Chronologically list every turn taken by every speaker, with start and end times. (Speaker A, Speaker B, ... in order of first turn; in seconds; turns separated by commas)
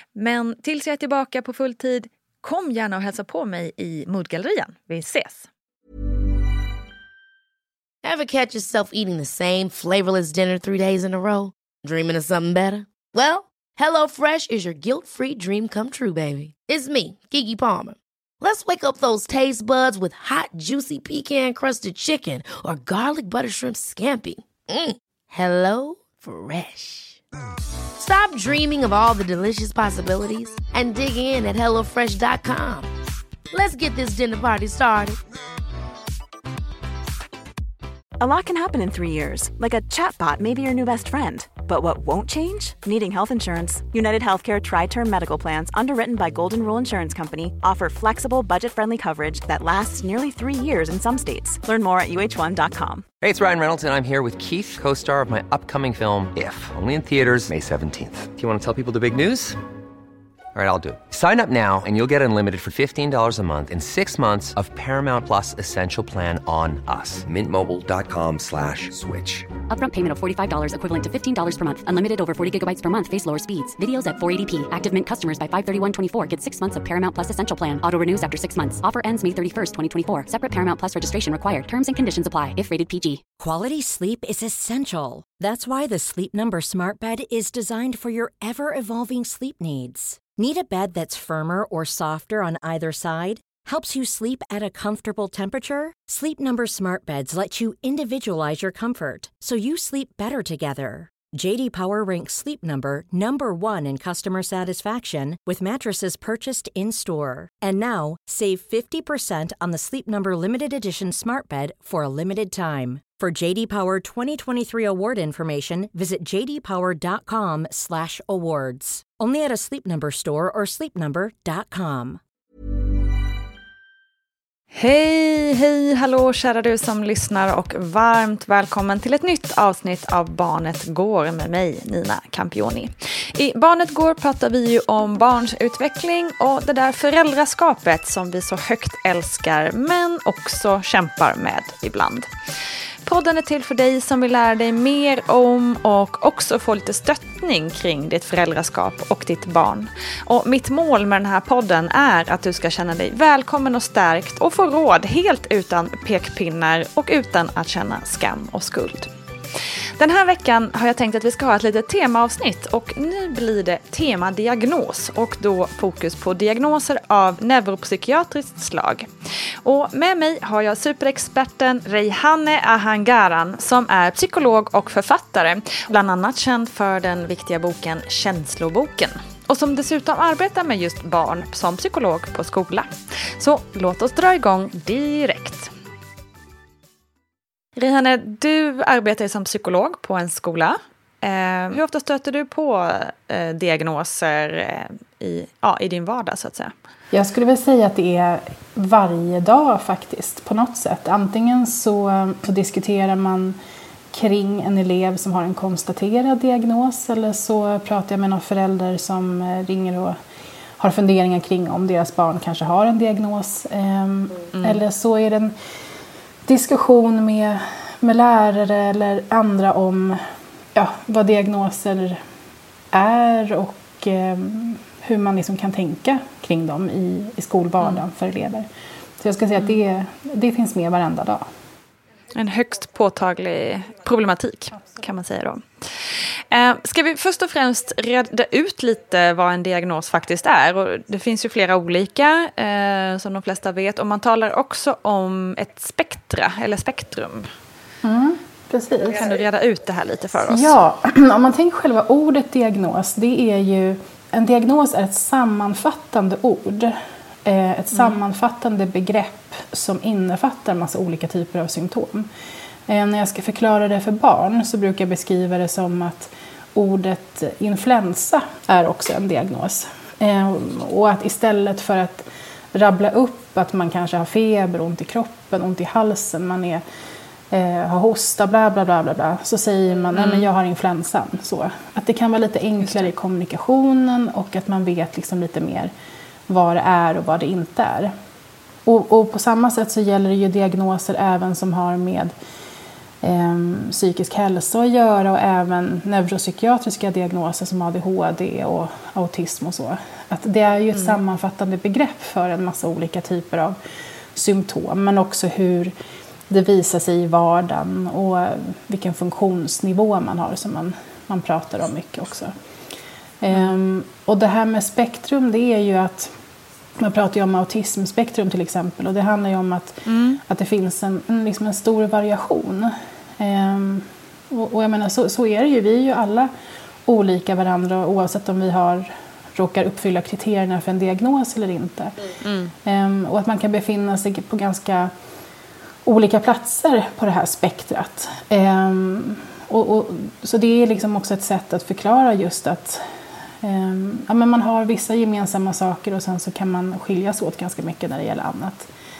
Speaker A: 0.1-5.5, Speaker B: 8.0-27.2, Speaker B: 28.0-32.9, Speaker B: 33.5-35.2, Speaker C: 38.2-53.0, Speaker D: 53.2-59.6, Speaker D: 60.5-69.5, Speaker E: 69.7-83.2, Speaker F: 83.4-122.2, Speaker A: 124.7-142.3, Speaker A: 143.0-159.1, Speaker A: 160.0-169.1, Speaker A: 169.6-185.7, Speaker A: 187.8-196.7, Speaker G: 197.1-203.6, Speaker G: 204.1-210.2, Speaker G: 210.8-215.5, Speaker A: 214.5-214.8, Speaker G: 216.4-220.2, Speaker G: 220.7-222.2, Speaker G: 222.9-228.7, Speaker G: 229.2-231.4, Speaker A: 232.3-247.5, Speaker G: 248.0-249.2, Speaker A: 249.1-250.7, Speaker G: 250.4-262.3, Speaker G: 262.9-276.8, Speaker G: 277.5-285.9, Speaker A: 280.1-280.4, Speaker G: 286.5-288.1, Speaker G: 288.9-292.3, Speaker G: 293.2-303.8, Speaker G: 304.3-305.9, Speaker G: 306.5-312.5, Speaker G: 313.4-316.3, Speaker G: 317.0-326.5, Speaker A: 320.0-320.4, Speaker G: 327.1-332.1, Speaker A: 332.4-332.7, Speaker G: 332.8-335.1, Speaker G: 336.0-343.0, Speaker G: 343.6-348.9